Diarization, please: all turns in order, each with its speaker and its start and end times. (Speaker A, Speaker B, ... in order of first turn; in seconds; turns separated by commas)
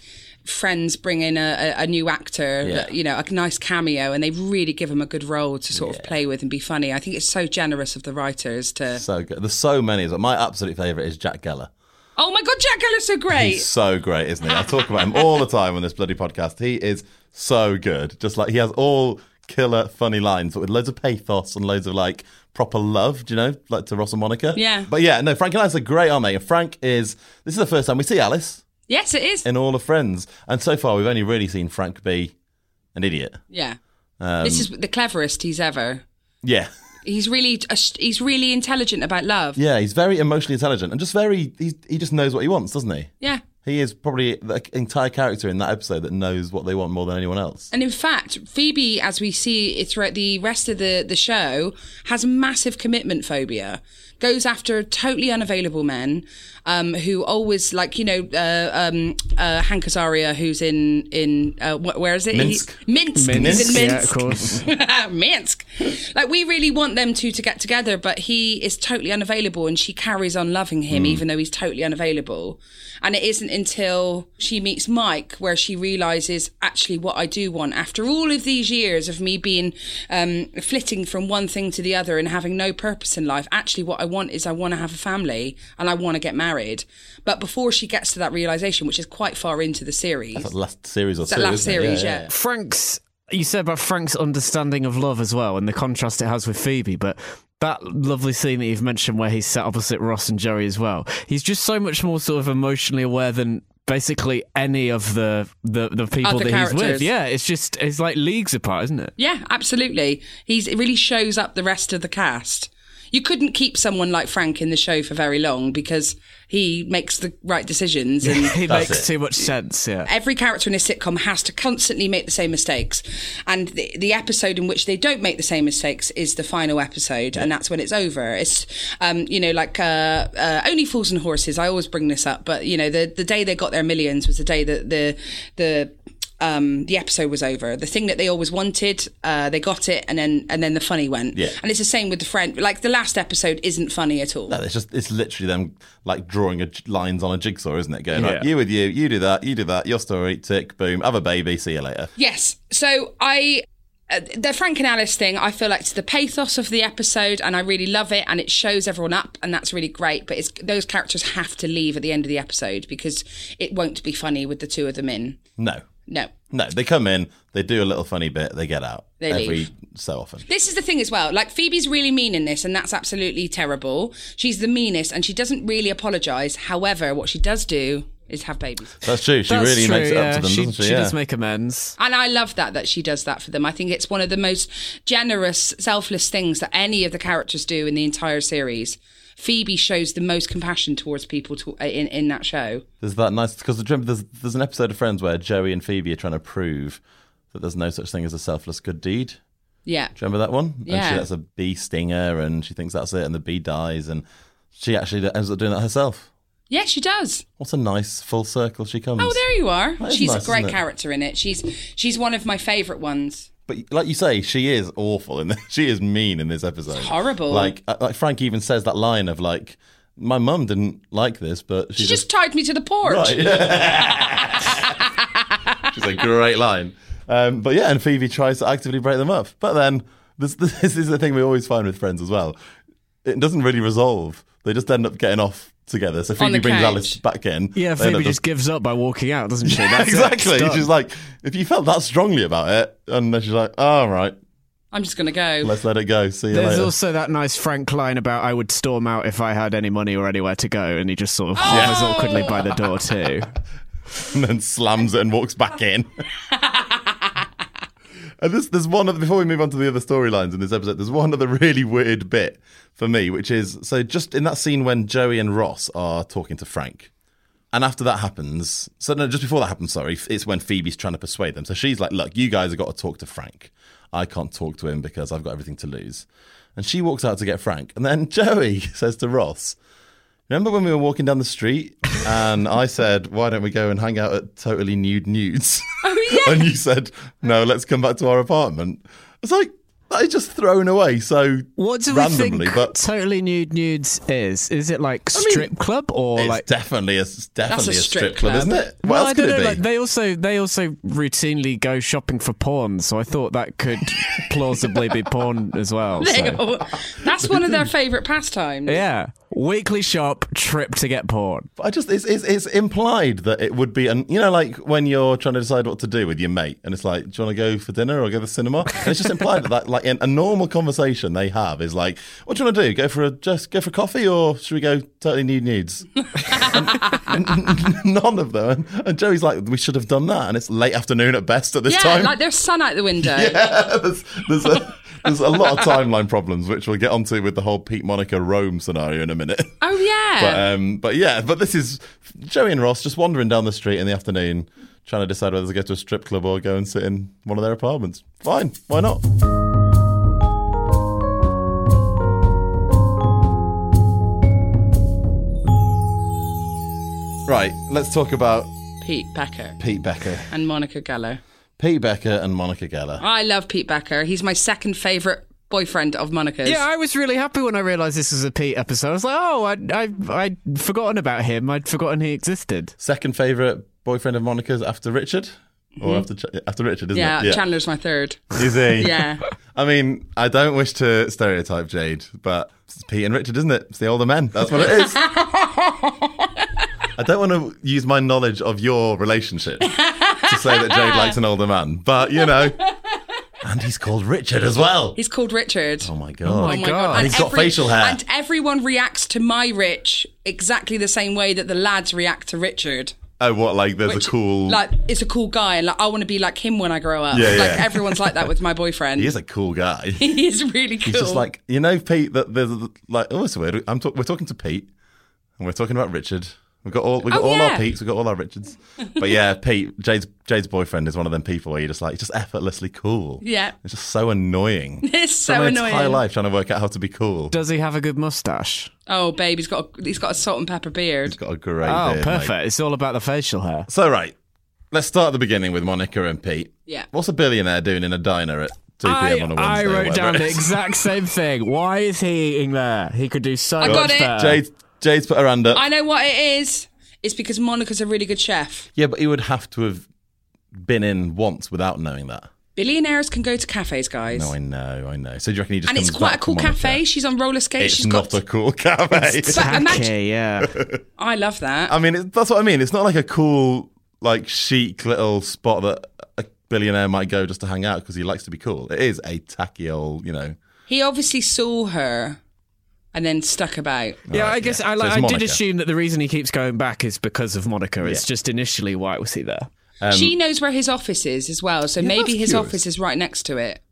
Speaker A: 0.4-9.0, Speaker B: 2.6-2.9, Speaker B: 5.7-6.1, Speaker B: 8.9-11.7, Speaker A: 12.2-13.7, Speaker B: 13.3-28.6, Speaker A: 14.8-15.2, Speaker A: 24.5-24.9, Speaker A: 28.9-29.4, Speaker B: 29.4-32.3, Speaker B: 32.9-33.4, Speaker A: 33.5-33.8, Speaker B: 34.2-34.7, Speaker A: 34.4-36.0, Speaker B: 36.4-36.7, Speaker A: 37.0-39.6, Speaker B: 39.5-43.1, Speaker B: 43.6-47.7, Speaker A: 47.7-90.5, Speaker B: 62.3-64.5, Speaker C: 63.1-64.6, Speaker B: 70.9-71.2, Speaker B: 90.3-92.3, Speaker A: 91.2-92.3, Speaker C: 92.3-109.1, Speaker A: 106.2-107.1, Speaker A: 109.2-118.6, Speaker C: 118.2-120.1, Speaker B: 118.7-119.1, Speaker A: 120.1-144.6, Speaker B: 144.5-152.1, Speaker C: 148.2-148.4, Speaker A: 152.2-165.4, Speaker B: 165.6-165.9, Speaker A: 166.1-166.3, Speaker B: 166.5-170.4, Speaker A: 169.2-169.7, Speaker A: 170.5-178.9, Speaker B: 179.0-181.1, Speaker C: 179.5-182.0, Speaker A: 182.0-192.8, Speaker B: 193.0-197.0, Speaker B: 197.5-199.4, Speaker A: 199.9-200.1, Speaker B: 200.1-206.3, Speaker A: 200.8-201.2, Speaker A: 206.7-207.4, Speaker B: 207.6-209.4, Speaker A: 209.2-213.5, Speaker B: 209.9-210.8, Speaker B: 213.7-222.2, Speaker A: 216.9-217.7, Speaker A: 222.0-223.4, Speaker B: 223.1-224.9, Speaker B: 225.9-232.6, Speaker B: 233.2-238.4, Speaker A: 236.4-237.2, Speaker C: 237.8-240.9, Speaker B: 239.6-244.4, Speaker A: 244.9-245.7, Speaker B: 245.6-246.9, Speaker C: 246.5-253.5, Speaker A: 251.6-252.6, Speaker B: 251.7-252.5, Speaker B: 254.2-256.1, Speaker A: 256.5-257.1, Speaker B: 258.4-267.1, Speaker B: 267.7-279.8, Speaker B: 280.5-292.9, Speaker A: 286.0-286.7, Speaker C: 291.8-296.6, Speaker B: 295.3-295.7, Speaker B: 296.4-299.8, Speaker A: 297.7-298.8, Speaker C: 299.0-306.6, Speaker A: 306.2-309.0, Speaker B: 307.4-307.8, Speaker C: 308.9-311.7, Speaker B: 311.8-332.4, Speaker A: 326.4-327.3, Speaker A: 331.9-333.6, Speaker B: 333.2-339.8, Speaker A: 339.8-340.6, Speaker B: 340.4-349.2, Speaker B: 357.5-358.7, Speaker A: 359.0-359.8, Speaker B: 359.8-360.5, Speaker A: 360.5-361.4, Speaker B: 361.8-363.2, Speaker A: 363.2-366.8, Speaker C: 366.6-372.9, Speaker B: 373.0-377.6, Speaker A: 377.1-379.4, Speaker B: 378.5-385.2, Speaker A: 384.9-386.5, Speaker B: 387.1-389.9, Speaker A: 389.9-391.4, Speaker B: 390.4-392.8, Speaker A: 392.4-393.1, Speaker B: 393.6-395.2, Speaker A: 395.2-403.1, Speaker B: 396.0-398.2, Speaker C: 396.4-397.3, Speaker B: 403.4-404.8, Speaker A: 404.1-409.3, Speaker B: 407.3-408.5, Speaker B: 409.1-410.4, Speaker A: 410.2-411.4, Speaker B: 411.1-414.9, Speaker B: 415.6-427.5, Speaker A: 417.3-417.9, Speaker A: 423.4-423.7, Speaker A: 425.0-426.2, Speaker C: 427.5-428.9, Speaker A: 429.1-431.4, Speaker B: 431.2-432.5, Speaker C: 431.9-433.9, Speaker B: 433.9-434.4, Speaker B: 434.9-440.8, Speaker C: 439.0-444.6, Speaker A: 443.8-444.3, Speaker B: 443.8-445.8, Speaker A: 445.7-448.9, Speaker B: 448.9-450.1, Speaker B: 450.8-452.5, Speaker A: 452.8-454.5, Speaker B: 454.3-457.0, Speaker A: 455.9-458.4, Speaker B: 457.8-459.9, Speaker C: 459.1-460.7, Speaker A: 459.5-460.1, Speaker B: 460.6-461.0, Speaker A: 461.2-461.9, Speaker B: 461.9-470.6, Speaker A: 470.9-472.4, Speaker A: 473.1-474.2, Speaker B: 474.3-475.6, Speaker C: 474.3-479.7, Speaker B: 478.0-478.2, Speaker B: 480.0-480.4, Speaker A: 480.1-483.8, Speaker B: 482.0-482.8